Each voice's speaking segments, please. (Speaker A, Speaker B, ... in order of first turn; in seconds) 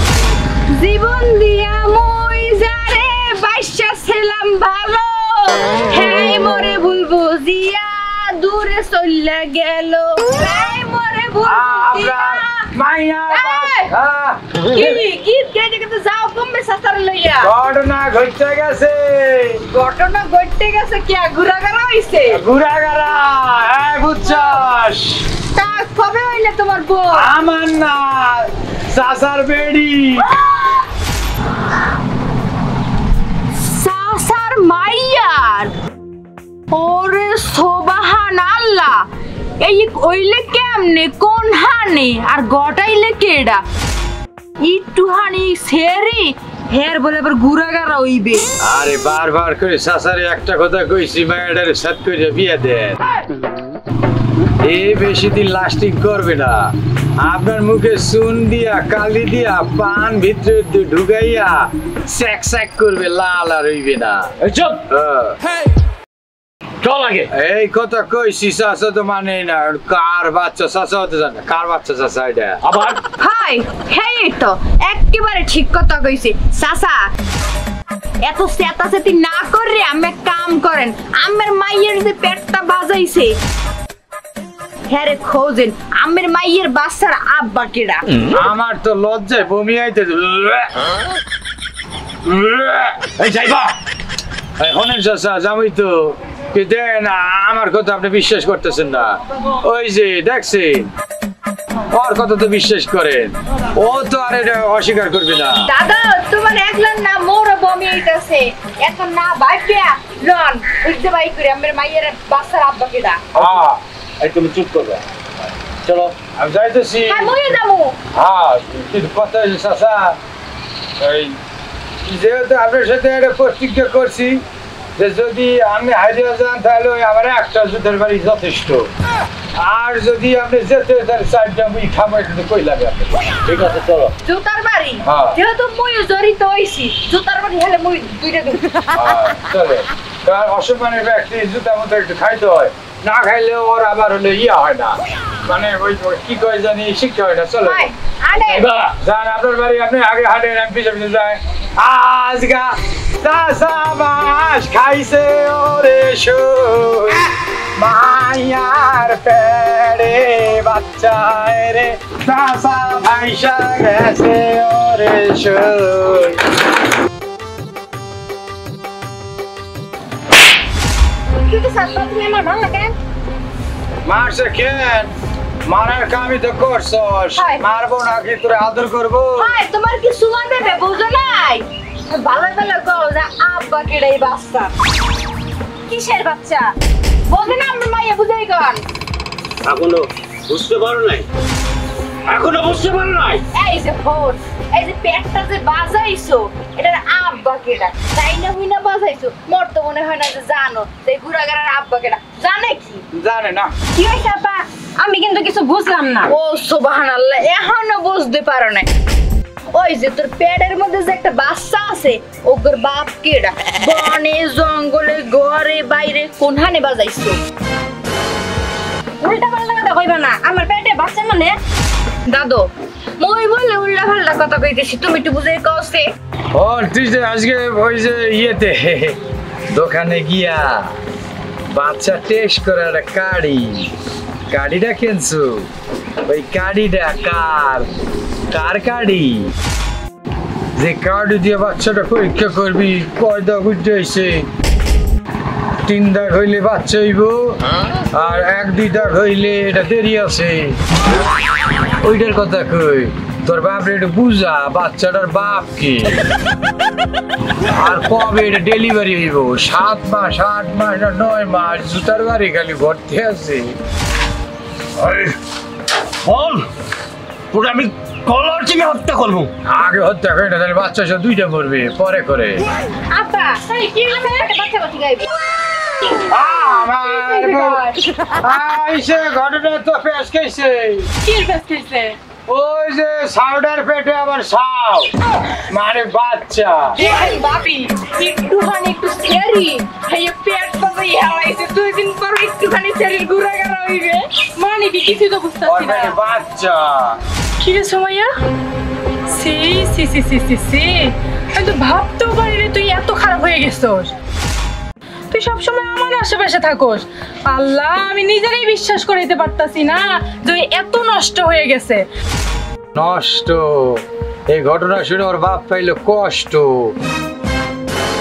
Speaker A: 0.7-12.5, 13.3-13.9, 14.7-17.5, 19.7-22.4, 25.5-27.3, 33.6-35.7, 36.7-39.0, 39.6-43.6, 44.6-48.5, 73.2-77.1, 78.2-83.3, 84.9-88.0, 105.6-113.2, 117.1-118.0, 134.2-138.6, 147.6-148.7, 171.5-172.9, 177.3-177.6, 179.4-184.7, 185.9-186.7, 187.3-188.8, 193.5-203.0, 203.9-208.9, 209.7-217.4, 219.2-221.5, 222.3-226.1, 273.1-275.3, 286.9-294.2
Speaker B: 11.4-14.9, 17.4-19.6, 22.3-25.2, 27.1-30.3, 48.6-53.0, 54.6-64.3, 64.9-65.4, 67.3-72.6, 88.3-90.7, 92.2-93.2, 94.6-100.9, 101.9-105.7, 113.3-113.8, 116.3-117.3, 118.1-120.2, 121.0-121.4, 122.0-124.4, 125.0-128.9, 129.6-133.6, 135.0-135.4, 138.9-147.9, 148.8-166.5, 174.1-175.1, 175.7-179.5, 203.1-203.7, 226.5-229.2, 229.7-230.9, 231.7-233.9, 234.5-235.7, 236.2-237.9, 238.5-239.5, 240.8-244.5, 245.8-247.6, 248.1-250.8, 252.0-256.2, 257.7-263.8, 269.6-272.6, 276.3-277.9, 278.4-281.1, 282.5-285.1, 285.7-287.0, 295.6-297.2, 312.9-316.9
Speaker C: 64.4-64.8, 66.8-67.3, 72.6-73.0, 93.2-93.7, 114.2-115.0, 115.8-116.2, 133.5-134.1, 148.4-148.8, 189.6-191.3, 192.3-193.4, 265.0-265.4, 266.2-266.6, 267.5-269.5
Speaker D: 273.7-274.5, 277.0-277.9, 281.2-282.2, 294.6-296.1, 297.6-298.3, 299.3-304.1, 305.3-312.1